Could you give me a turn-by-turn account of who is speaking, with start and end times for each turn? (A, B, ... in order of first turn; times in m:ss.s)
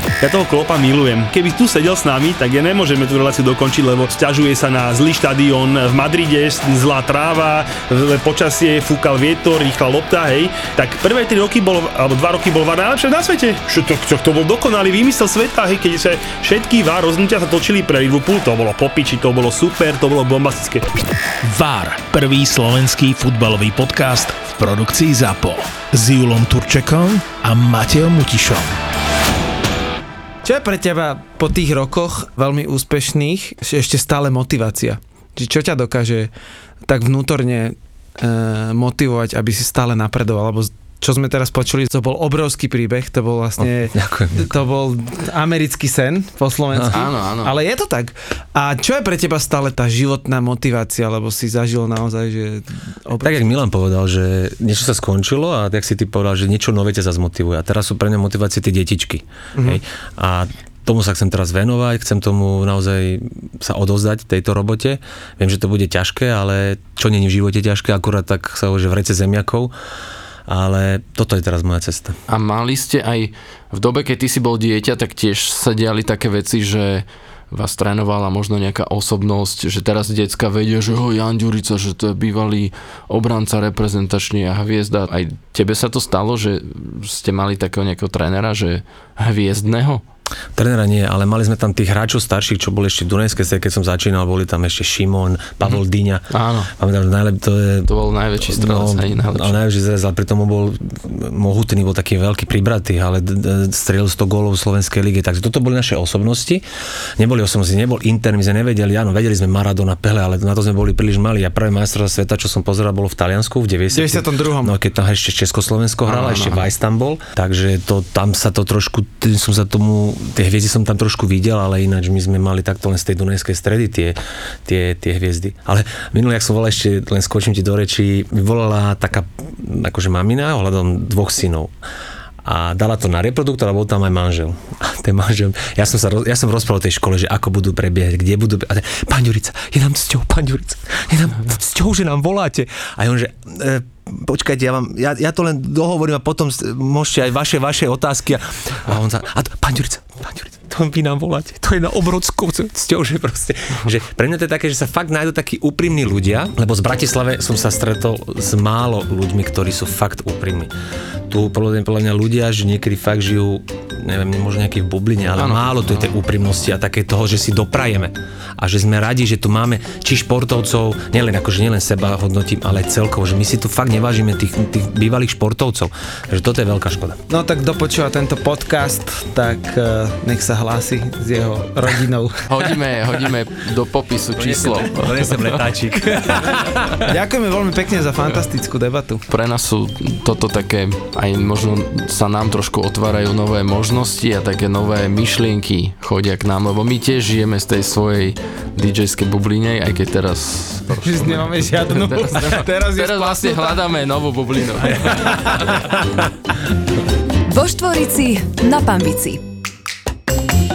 0:00.2-0:20.9 A
0:21.4-0:28.8 B
0:30.4-0:36.3 C
0:36.8-0:53.4 C
0:43.6-0:44.5 D
0:46.9-0:47.5 E
0:53.2-1:09.7 D
1:10.5-1:12.2 D
1:12.3-1:30.0 E
1:30.6-1:46.6 D
1:36.3-1:36.7 E
1:37.9-1:39.6 E
1:47.2-2:11.7 D
1:53.9-1:54.7 C
1:56.0-1:56.7 E
2:12.4-2:40.7 D
2:41.3-2:57.2 D
2:45.4-2:46.1 E
2:57.3-3:02.4 C
3:02.5-3:05.5 E
3:04.4-3:07.0 D
3:07.0-3:09.2 C
3:09.3-3:25.6 E
3:20.9-3:23.8 C
3:24.9-3:25.8 C
3:27.5-3:29.4 F